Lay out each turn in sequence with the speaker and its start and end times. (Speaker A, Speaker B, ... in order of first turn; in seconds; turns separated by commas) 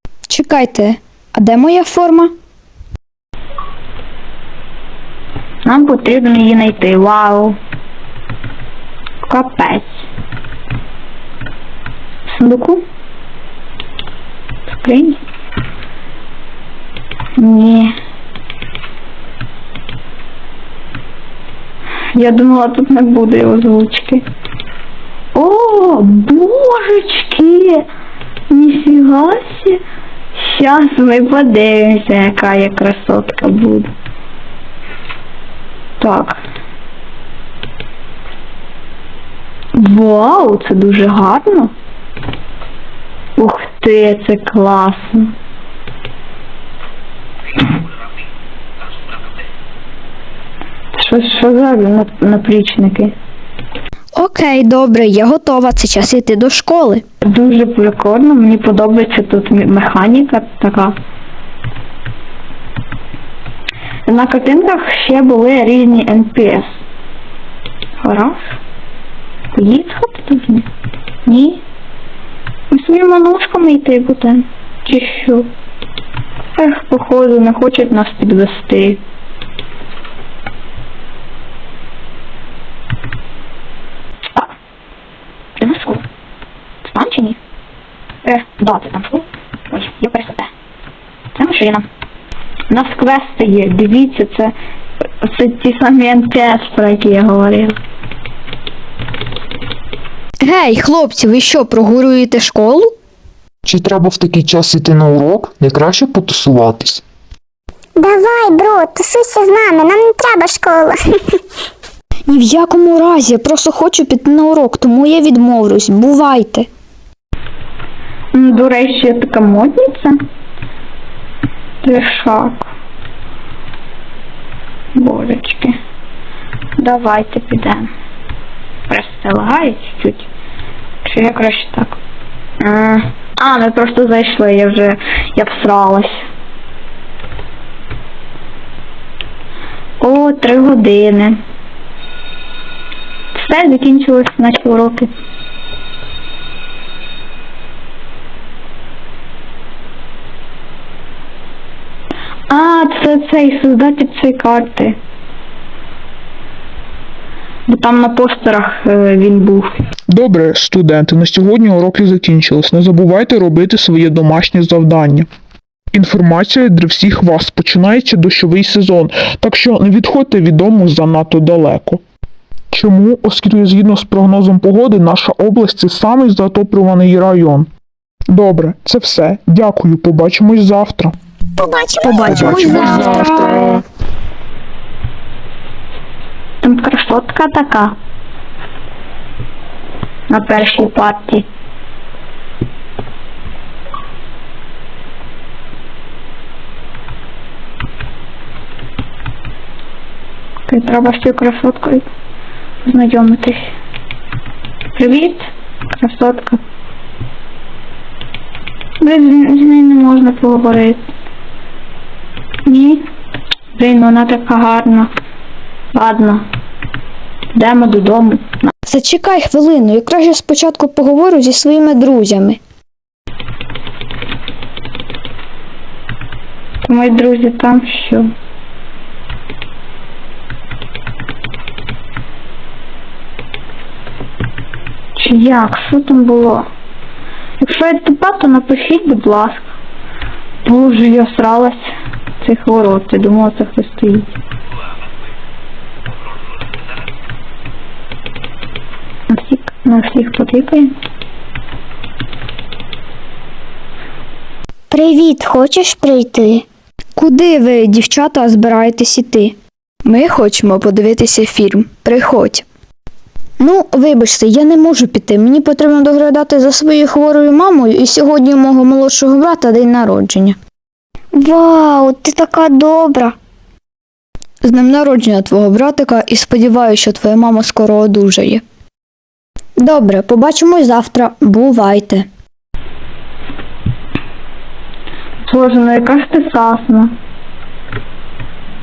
Speaker A: 0.3-2.3, Speaker B: 5.6-7.5, Speaker B: 9.2-10.0, Speaker B: 12.3-12.8, Speaker B: 14.7-15.2, Speaker B: 17.4-17.9, Speaker B: 22.1-24.2, Speaker B: 25.3-27.8, Speaker B: 28.5-29.8, Speaker B: 30.3-33.9, Speaker B: 36.0-36.4, Speaker B: 39.7-41.7, Speaker B: 43.4-45.3, Speaker B: 51.0-53.1, Speaker A: 54.1-57.0, Speaker B: 57.2-61.0, Speaker B: 64.1-66.7, Speaker B: 68.0-68.4, Speaker B: 69.5-70.7, Speaker B: 71.2-71.6, Speaker B: 72.7-75.5, Speaker B: 76.6-79.0, Speaker B: 85.6-86.0, Speaker B: 86.8-87.4, Speaker B: 88.2-90.5, Speaker B: 91.3-91.8, Speaker B: 92.7-94.5, Speaker B: 95.2-97.8, Speaker A: 100.4-102.9, Speaker C: 103.6-107.0, Speaker D: 108.0-111.0, Speaker A: 112.3-116.7, Speaker B: 118.3-120.2, Speaker B: 121.8-122.7, Speaker B: 124.9-125.8, Speaker B: 126.8-127.9, Speaker B: 128.9-130.3, Speaker B: 131.0-132.0, Speaker B: 132.6-136.2, Speaker B: 140.0-141.4, Speaker B: 143.3-145.1, Speaker B: 152.5-155.0, Speaker B: 157.7-159.7, Speaker E: 160.1-165.3, Speaker E: 165.9-172.0, Speaker E: 172.7-177.7, Speaker E: 178.3-181.1, Speaker D: 181.6-183.2, Speaker A: 182.0-183.8, Speaker C: 182.2-183.8, Speaker B: 186.6-187.9, Speaker B: 190.3-191.4, Speaker B: 200.7-202.1, Speaker B: 202.8-203.7, Speaker B: 204.9-206.6, Speaker B: 209.0-211.0, Speaker B: 212.7-213.1, Speaker B: 213.8-215.1, Speaker B: 215.9-216.4, Speaker B: 217.5-218.7, Speaker A: 218.8-222.6, Speaker B: 226.8-228.3, Speaker B: 235.2-236.6, Speaker B: 237.6-239.7, Speaker B: 240.6-241.8, Speaker B: 242.4-244.3, Speaker B: 249.3-250.9, Speaker D: 254.9-256.6, Speaker A: 257.1-262.6, Speaker A: 263.6-270.6, Speaker D: 271.3-273.3, Speaker A: 274.6-278.6, Speaker A: 279.8-282.3, Speaker B: 285.4-287.1